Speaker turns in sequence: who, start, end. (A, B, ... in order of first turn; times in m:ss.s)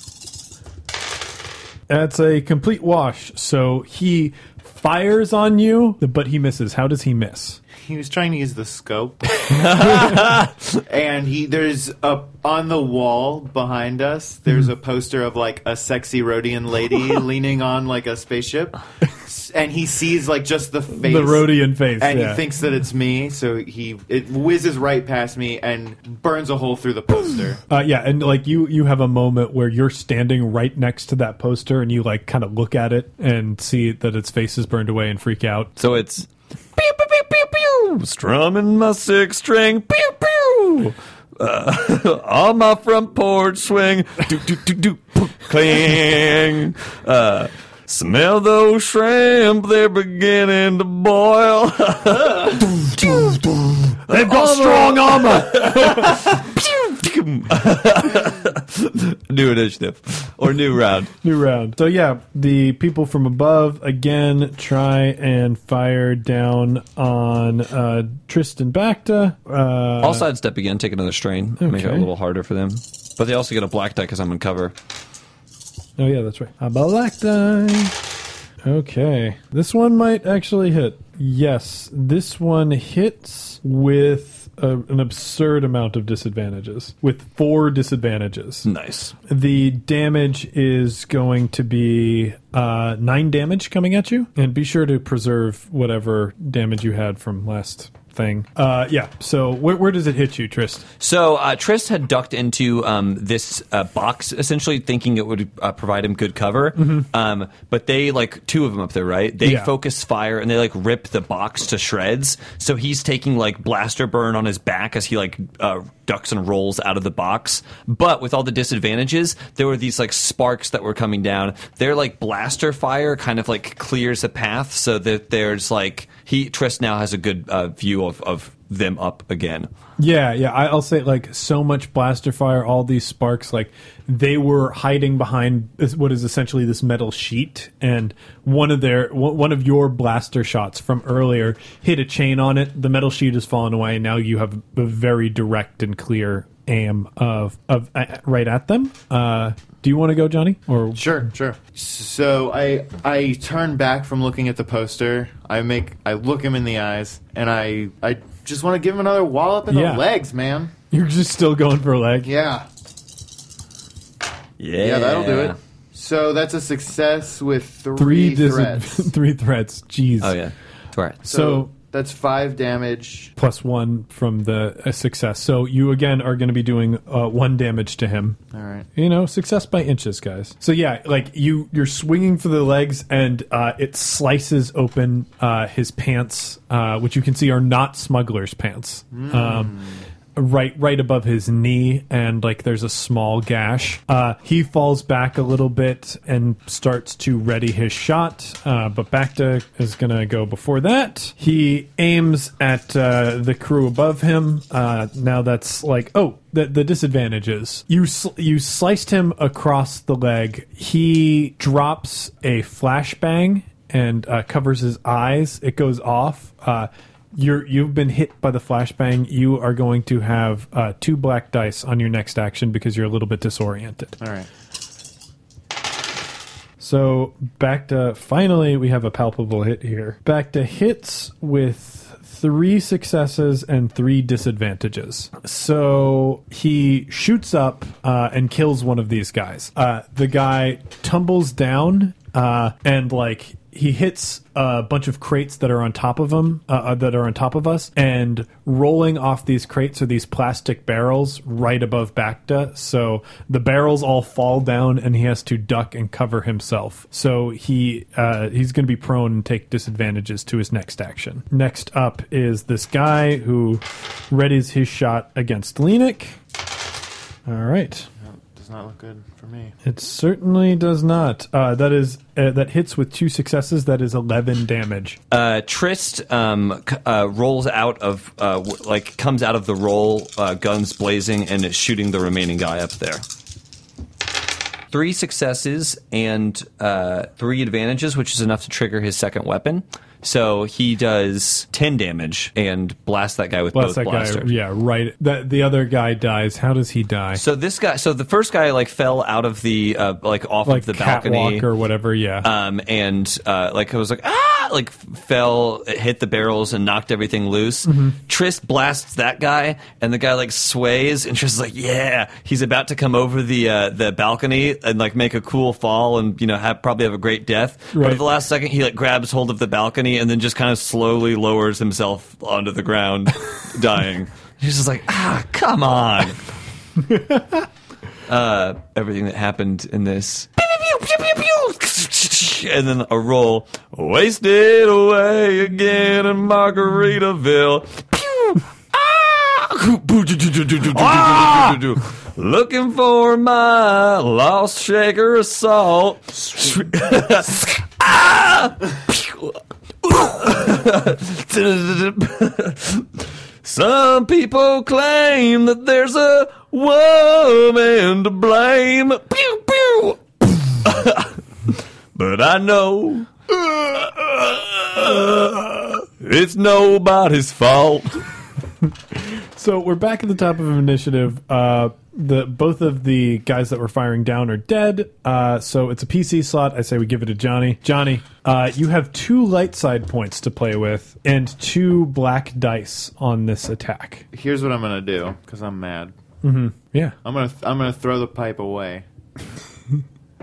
0:01.9-0:07.6 A
0:07.8-0:09.3 B
0:09.5-0:10.6 C
0:10.8-0:27.6 B
0:21.0-0:22.4 A
0:27.7-0:35.8 A
0:35.8-1:01.1 C
0:53.0-0:53.4 A
0:54.0-0:56.4 A
1:01.2-1:10.2 A
1:10.0-1:14.7 C
1:11.6-1:12.1 A
1:16.0-1:18.0 A
1:18.6-1:28.7 A
1:28.6-1:29.1 C
1:29.3-1:40.9 A
1:41.0-2:09.7 C
1:46.8-1:47.1 A
1:49.4-1:49.7 A
2:10.0-2:31.1 A
2:30.9-2:40.7 B
2:39.7-2:40.1 A
2:40.9-2:42.3 A
2:42.2-2:42.7 B
2:44.6-2:45.6 C
2:44.8-2:49.1 B
2:48.0-2:50.4 A
2:50.2-2:51.2 C
2:51.2-2:51.7 A
2:51.2-2:53.3 B
2:53.4-2:58.4 A
2:58.5-2:58.9 B
2:58.9-3:09.8 A
3:09.1-3:10.0 B
3:10.4-3:44.2 A
3:44.2-3:44.5 B
3:46.8-4:26.4 A
4:27.4-4:28.1 A
4:28.2-4:29.8 B
4:29.8-4:35.2 A
4:35.3-4:43.2 C
4:44.9-4:54.5 C
4:53.7-4:57.4 A
4:57.3-5:01.6 C
5:00.6-5:02.5 A
5:02.4-5:26.4 C
5:07.8-5:08.2 A
5:17.9-5:18.2 A
5:27.1-5:27.6 A
5:28.3-6:01.4 C
5:41.2-5:41.8 A
6:02.1-6:08.2 C
6:09.2-6:24.2 A
6:24.3-6:26.1 B
6:26.4-6:27.2 A
6:27.2-6:29.0 B